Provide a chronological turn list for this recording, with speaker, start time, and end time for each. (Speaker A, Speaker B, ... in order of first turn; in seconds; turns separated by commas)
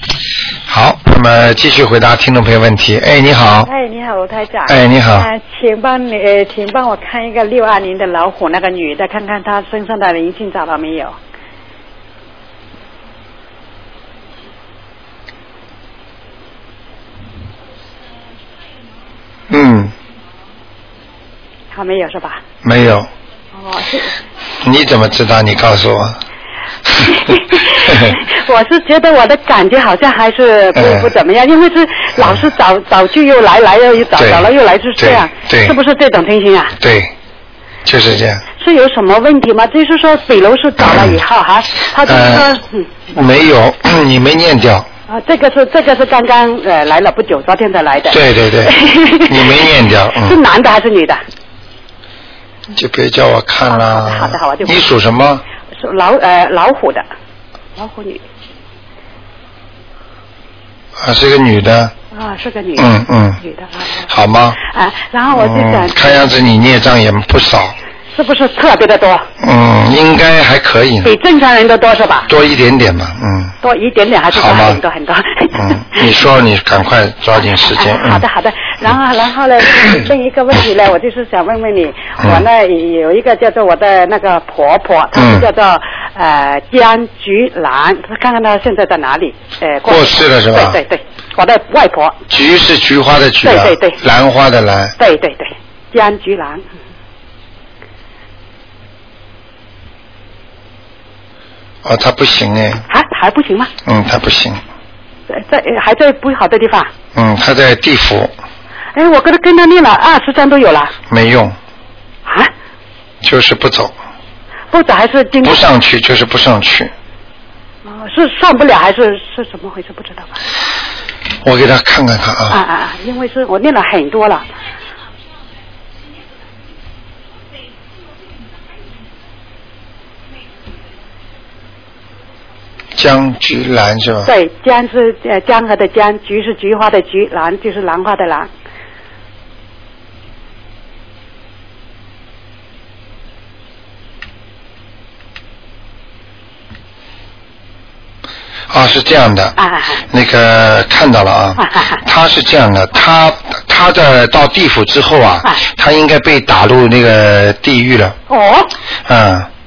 Speaker A: 0.7-3.7, Speaker B: 3.6-11.2, Speaker A: 4.7-5.3, Speaker A: 19.5-19.9, Speaker B: 21.7-22.4, Speaker A: 22.6-23.1, Speaker B: 23.5-24.1, Speaker A: 24.6-26.2, Speaker A: 26.9-28.1, Speaker B: 27.0-36.7, Speaker A: 30.7-31.1, Speaker A: 32.2-32.4, Speaker A: 34.1-35.8, Speaker A: 36.8-37.1, Speaker A: 37.8-38.4, Speaker B: 38.6-42.9, Speaker A: 40.8-41.2, Speaker A: 42.0-42.5, Speaker A: 43.1-44.9, Speaker B: 45.1-51.2, Speaker A: 48.1-48.8, Speaker A: 49.3-50.4, Speaker A: 52.7-55.4, Speaker B: 53.7-54.8, Speaker B: 55.8-57.0, Speaker B: 57.8-58.2, Speaker A: 61.0-61.9, Speaker B: 62.1-64.1, Speaker A: 62.8-63.4, Speaker A: 64.1-64.6, Speaker B: 64.6-66.4, Speaker A: 65.3-67.8, Speaker B: 68.1-69.3, Speaker A: 69.4-71.1, Speaker B: 71.0-72.3, Speaker A: 72.3-73.5, Speaker B: 73.6-76.1, Speaker A: 74.3-74.8, Speaker A: 75.5-78.2, Speaker B: 77.5-92.2, Speaker A: 85.1-85.5, Speaker A: 89.9-90.8, Speaker A: 92.3-95.0, Speaker B: 93.4-94.0, Speaker B: 95.0-96.6, Speaker A: 101.8-102.8, Speaker B: 102.9-103.7, Speaker A: 103.8-104.6, Speaker B: 105.3-106.9, Speaker A: 107.1-108.3, Speaker B: 108.9-110.9, Speaker A: 111.1-111.5, Speaker B: 112.2-112.5, Speaker A: 113.2-113.9, Speaker B: 114.7-115.7, Speaker A: 115.4-116.9, Speaker B: 117.8-120.4, Speaker A: 121.4-122.6, Speaker B: 122.5-124.5, Speaker A: 132.9-134.3, Speaker B: 134.2-138.5, Speaker A: 148.7-149.6, Speaker B: 149.6-150.0, Speaker A: 150.1-158.2, Speaker B: 151.6-152.0, Speaker B: 158.3-158.7, Speaker A: 159.1-159.5